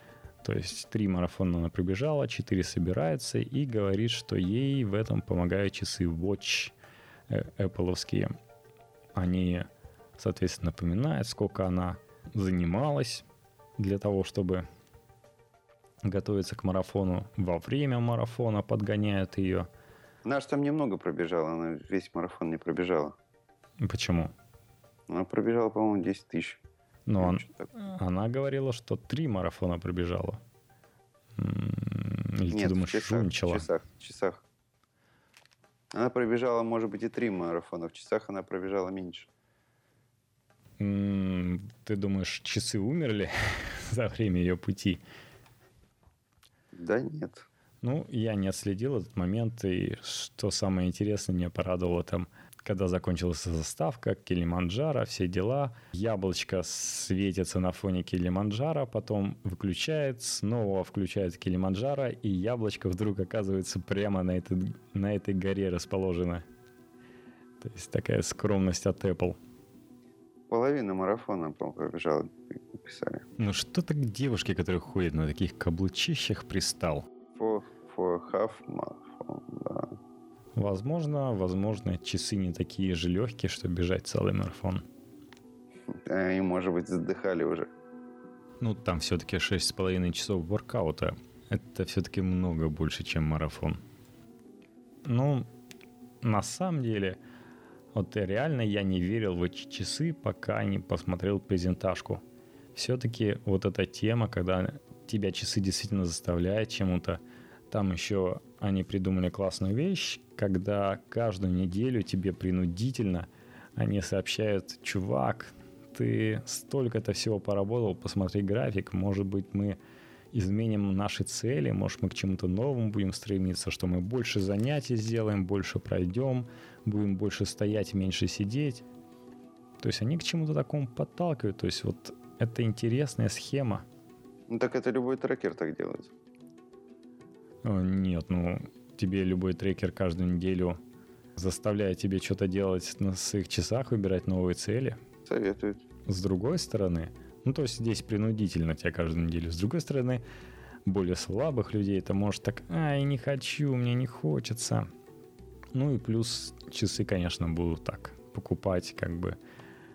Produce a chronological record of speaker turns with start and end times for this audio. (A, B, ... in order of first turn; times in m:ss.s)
0:00.4-0:06.8 A
0:07.3-0:08.3 A
0:09.2-0:13.3 A
0:13.8-0:14.7 A
0:16.0-0:19.7 A
0:20.2-0:23.2 B
0:23.8-0:24.3 A
0:25.1-0:26.6 B
0:27.1-0:30.4 A
0:27.2-0:27.7 B
0:31.4-0:33.7 A
0:32.5-0:34.4 B
0:35.9-0:39.3 B
0:40.8-0:45.0 A
0:46.8-0:47.5 B
0:47.8-1:06.5 A
1:07.6-1:09.4 A
1:10.5-1:13.3 B
1:13.4-1:17.1 A
1:17.4-1:20.0 B
1:20.6-1:24.8 A
1:25.9-1:27.7 B
1:28.6-1:33.8 A
1:35.1-1:35.5 A
1:36.2-1:37.2 A
1:37.9-1:42.2 A
1:42.8-1:59.8 A
2:00.3-2:08.8 A
2:09.8-2:13.8 A
2:14.5-2:16.1 B
2:17.6-2:20.8 A
2:21.4-2:25.0 A
2:25.3-2:25.8 B
2:26.1-2:30.2 A
2:30.8-2:34.9 A
2:35.7-2:39.4 A